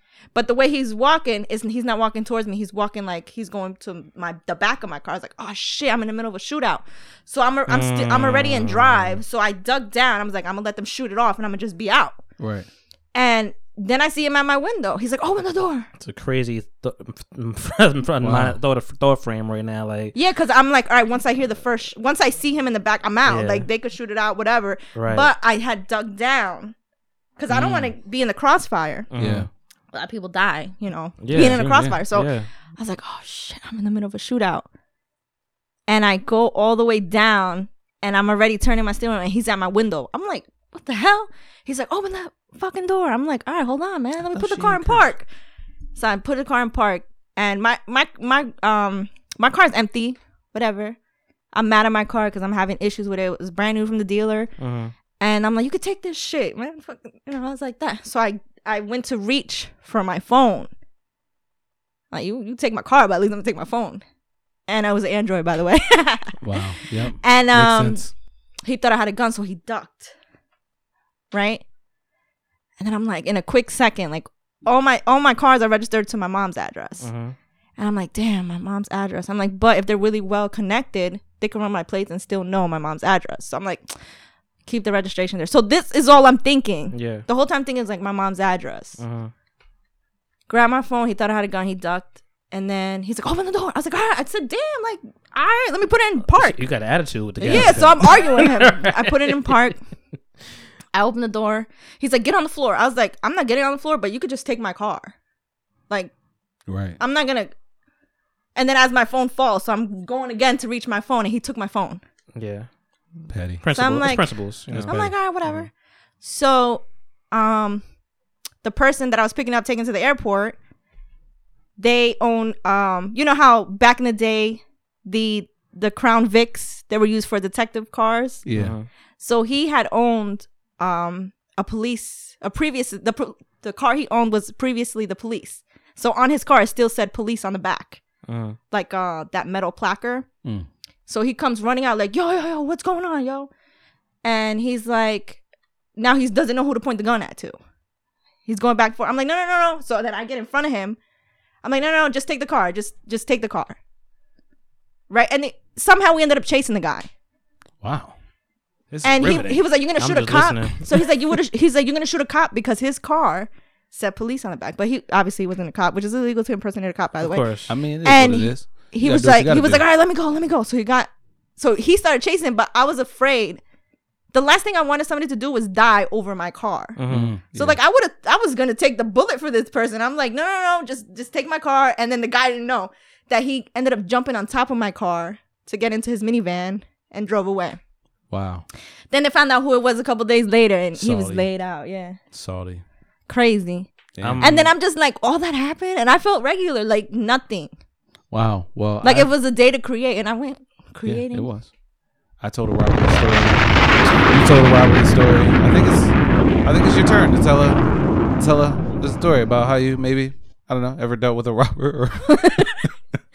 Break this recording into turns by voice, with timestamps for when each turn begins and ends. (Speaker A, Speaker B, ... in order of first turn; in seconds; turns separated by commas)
Speaker A: 0.3-12.2, Speaker B: 7.7-9.2, Speaker C: 12.4-12.7, Speaker A: 13.1-15.9, Speaker B: 16.0-20.1, Speaker C: 18.2-18.6, Speaker A: 20.1-26.8, Speaker B: 23.2-23.7, Speaker B: 24.9-25.3, Speaker A: 27.4-29.1, Speaker B: 27.5-27.9, Speaker B: 29.1-29.5, Speaker C: 29.2-29.5, Speaker A: 29.9-34.7, Speaker B: 31.2-32.5, Speaker C: 31.3-32.0, Speaker A: 35.9-45.3, Speaker C: 44.3-45.1, Speaker A: 46.0-51.0, Speaker A: 51.5-54.5, Speaker B: 54.6-54.9, Speaker A: 55.2-60.7, Speaker A: 62.1-64.0, Speaker A: 64.7-66.4, Speaker C: 66.4-68.1, Speaker A: 67.1-68.1, Speaker A: 68.6-70.1, Speaker A: 71.3-71.6, Speaker A: 72.8-77.1, Speaker B: 77.0-77.3, Speaker A: 77.8-83.9, Speaker A: 84.7-89.0, Speaker B: 86.9-87.2, Speaker B: 89.0-89.3, Speaker A: 90.5-96.6, Speaker B: 96.3-99.5, Speaker A: 97.4-99.8, Speaker C: 97.4-98.0, Speaker A: 100.9-105.1, Speaker C: 106.7-107.0, Speaker A: 107.0-107.5, Speaker A: 108.5-112.0, Speaker B: 112.4-112.7, Speaker C: 113.3-113.6, Speaker B: 113.6-115.6, Speaker A: 113.7-117.8, Speaker C: 114.7-115.1, Speaker A: 118.6-120.6, Speaker A: 121.8-128.4, Speaker C: 128.5-128.8, Speaker B: 128.5-128.9, Speaker A: 129.2-138.0, Speaker B: 138.3-138.6, Speaker A: 138.7-140.3, Speaker A: 141.1-143.5, Speaker A: 144.2-145.4, Speaker A: 146.0-147.6, Speaker A: 148.5-151.0, Speaker A: 151.6-153.8, Speaker A: 155.1-157.1, Speaker C: 157.8-158.2, Speaker C: 158.9-159.6, Speaker A: 159.0-173.6, Speaker B: 160.0-160.8, Speaker B: 167.2-167.7, Speaker C: 167.7-169.9, Speaker A: 174.3-177.0, Speaker B: 177.0-177.3, Speaker C: 177.1-177.8, Speaker A: 177.5-187.8, Speaker C: 188.3-188.7, Speaker A: 189.1-192.2, Speaker C: 190.9-191.5, Speaker C: 192.3-192.8, Speaker A: 193.3-193.9, Speaker C: 194.2-194.5, Speaker B: 194.2-194.7, Speaker A: 194.4-197.7, Speaker C: 198.3-199.3, Speaker A: 199.0-201.5, Speaker C: 201.1-201.7, Speaker C: 202.4-207.8, Speaker C: 208.4-212.9, Speaker A: 212.4-212.7